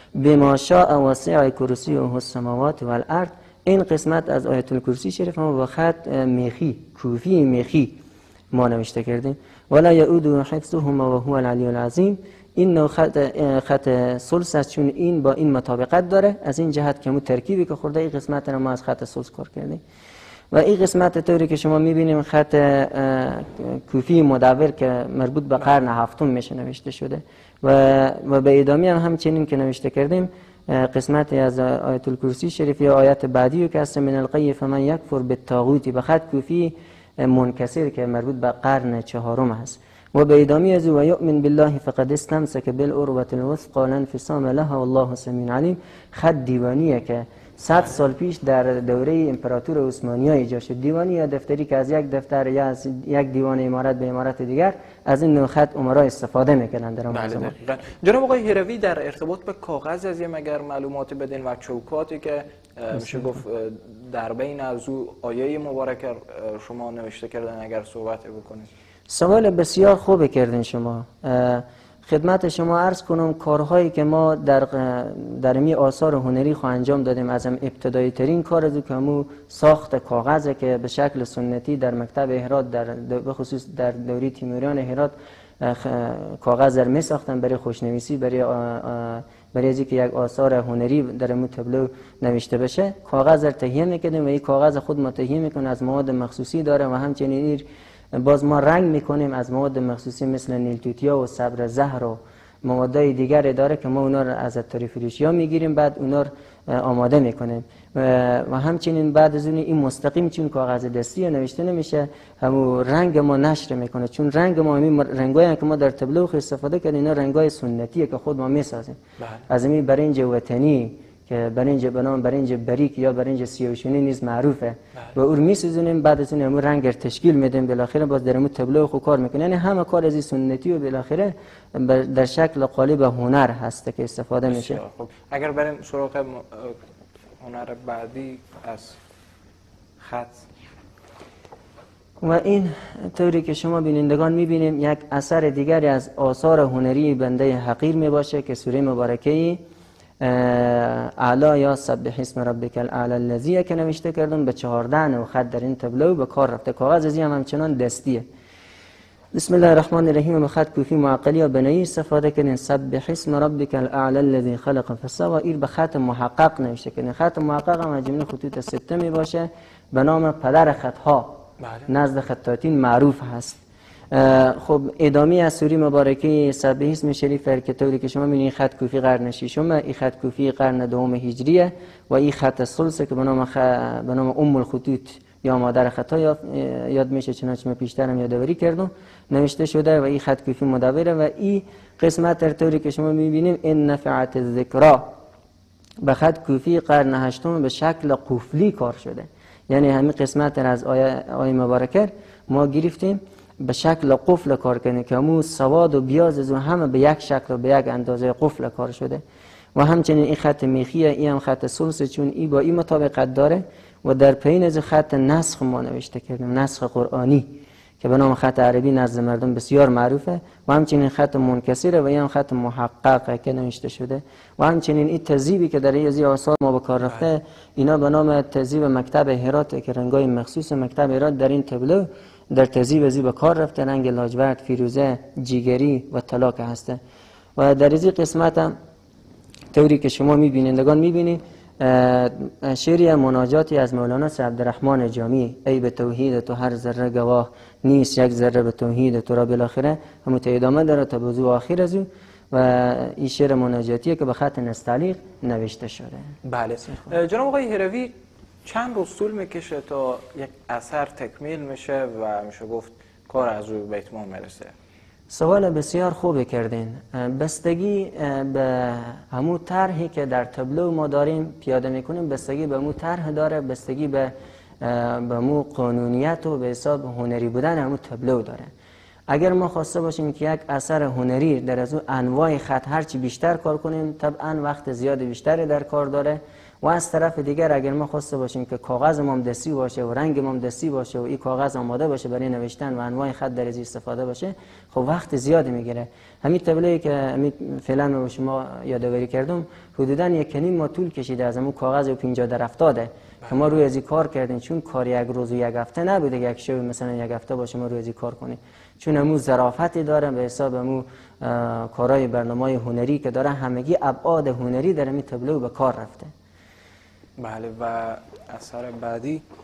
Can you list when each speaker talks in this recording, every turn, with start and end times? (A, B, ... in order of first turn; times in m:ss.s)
0:00.2-0:08.0 A
0:08.5-0:19.8 A
0:20.5-0:57.6 A
0:57.1-1:08.7 B
1:09.1-1:59.0 A
1:59.2-1:59.4 B
1:59.5-2:14.8 A
2:14.5-2:16.8 B
2:17.4-2:19.0 B
2:20.0-2:20.4 B
2:22.2-2:29.6 A
2:30.2-2:38.2 A
2:39.3-2:53.6 A
2:51.6-2:51.9 B
2:54.1-3:15.1 A
3:16.0-3:29.2 A
3:29.8-3:57.0 A
3:57.6-3:58.7 A
3:59.7-4:16.3 A
4:16.4-4:18.1 B
4:18.6-4:24.7 B
4:25.3-4:38.7 A
4:39.3-5:16.3 A
5:03.4-5:03.7 B
5:17.4-5:19.4 B